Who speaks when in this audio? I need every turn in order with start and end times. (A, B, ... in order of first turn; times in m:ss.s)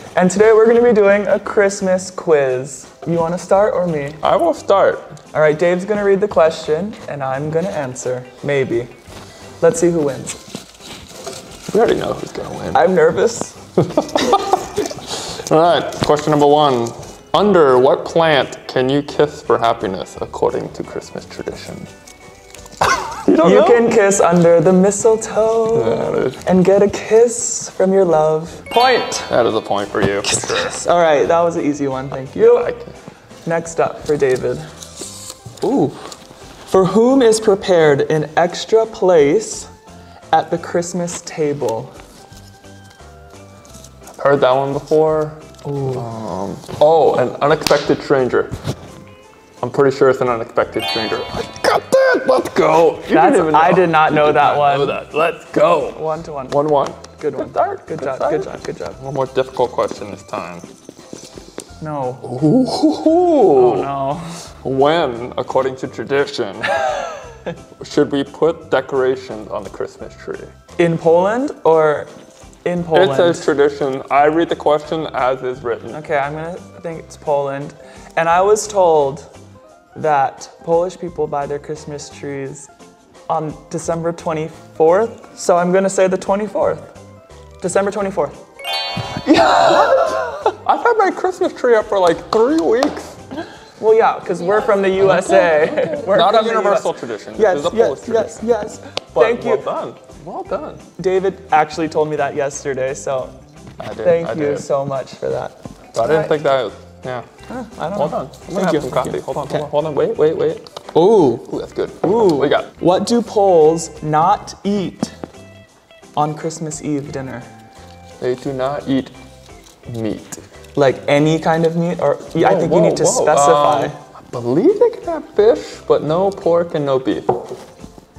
0:00.2-0:04.2 A
0:04.2-0:05.2 B
0:05.3-0:08.9 A
0:09.6-0:10.4 A
0:11.7-0:12.9 B
0:12.7-0:13.6 A
0:13.8-0:21.9 B
0:23.0-0:23.8 B
0:23.4-0:29.3 A
0:25.7-0:26.4 B
0:29.3-0:30.8 B
0:30.3-0:32.7 A
0:32.4-0:33.0 B
0:33.4-0:34.6 A
0:35.6-0:36.1 A
0:36.7-0:39.7 A
0:40.3-0:41.9 A
0:44.2-0:48.6 B
0:45.6-0:46.0 A
0:49.6-1:00.6 B
0:53.1-0:55.0 A
0:55.9-0:59.0 A
1:01.8-1:02.3 A
1:02.2-1:03.9 B
1:03.5-1:04.4 A
1:04.6-1:07.1 B
1:07.8-1:10.5 B
1:10.8-1:12.1 A
1:12.6-1:13.5 A
1:12.9-1:16.0 B
1:15.9-1:19.3 A
1:20.0-1:22.7 A
1:23.3-1:26.9 A
1:27.6-1:28.4 A
1:29.1-1:30.6 A
1:30.6-1:33.2 B
1:33.8-1:39.7 A
1:35.0-1:38.5 B
1:39.1-1:40.8 B
1:41.0-1:43.3 A
1:43.8-1:44.7 B
1:44.0-1:46.3 A
1:45.9-1:47.2 B
1:47.5-1:49.7 A
1:47.9-1:50.7 B
1:50.9-1:51.5 A
1:51.5-1:52.7 B
1:52.0-1:55.1 A
1:56.2-1:57.5 A
1:58.2-1:59.1 B
1:59.9-2:00.4 B
2:00.8-2:04.0 A
2:02.4-2:07.5 B